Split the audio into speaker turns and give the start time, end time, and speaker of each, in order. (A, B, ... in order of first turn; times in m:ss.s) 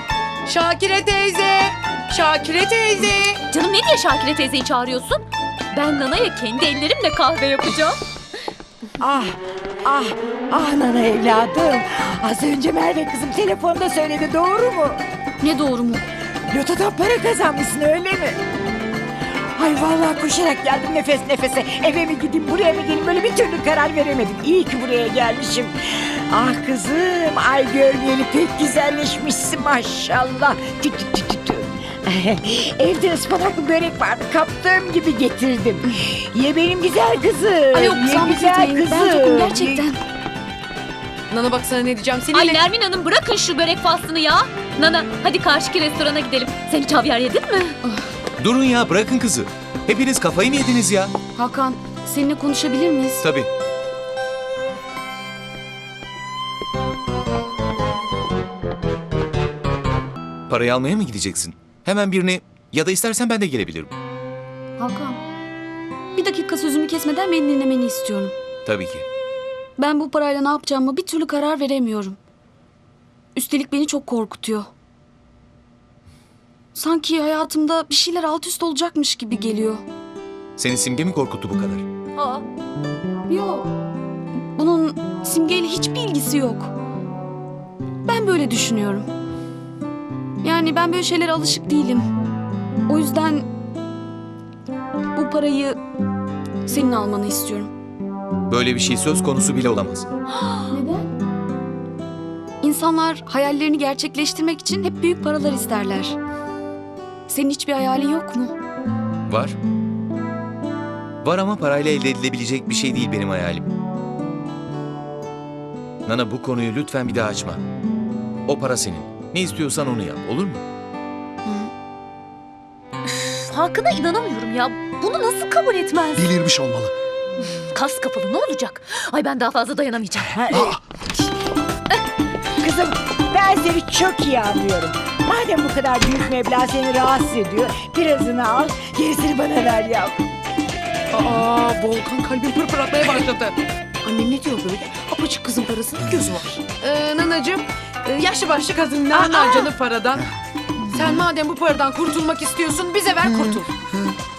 0:00.5-0:03.4 A
0:03.5-0:08.0 B
0:09.0-0:15.0 C
0:15.4-0:16.0 D
0:16.5-0:18.4 C
0:19.3-0:39.9 C
0:37.7-0:40.0 D
0:41.3-0:42.6 A
0:42.3-0:47.8 B
0:48.4-0:51.1 E
0:51.4-0:53.2 D
0:53.2-0:53.5 E
1:00.5-1:03.9 E
1:04.8-1:05.2 D
1:06.2-1:08.3 D
1:08.7-1:09.1 E
1:09.8-1:12.2 D
1:13.4-1:14.7 D
1:16.7-1:19.8 D
1:20.6-1:21.9 E
1:22.2-1:22.4 B
1:23.3-1:23.7 D
1:24.6-1:26.7 D
1:28.0-1:29.1 D
1:30.4-1:32.1 D
1:32.9-1:33.5 D
1:35.2-1:35.8 D
1:36.6-1:37.7 D
1:38.5-1:40.1 E
1:40.7-1:41.1 D
1:42.6-1:46.2 D
1:47.3-1:48.6 D
1:49.3-1:49.6 E
1:51.2-1:53.7 E
1:56.1-1:57.6 E
1:58.5-2:00.6 E
2:03.1-2:06.3 B
2:06.2-2:06.9 F
2:07.7-2:10.5 B
2:10.3-2:10.8 C
2:10.5-2:10.8 F
2:12.6-2:20.2 C
2:21.1-2:30.2 A
2:29.1-2:29.7 C
2:30.9-2:33.7 A
2:33.2-2:34.2 F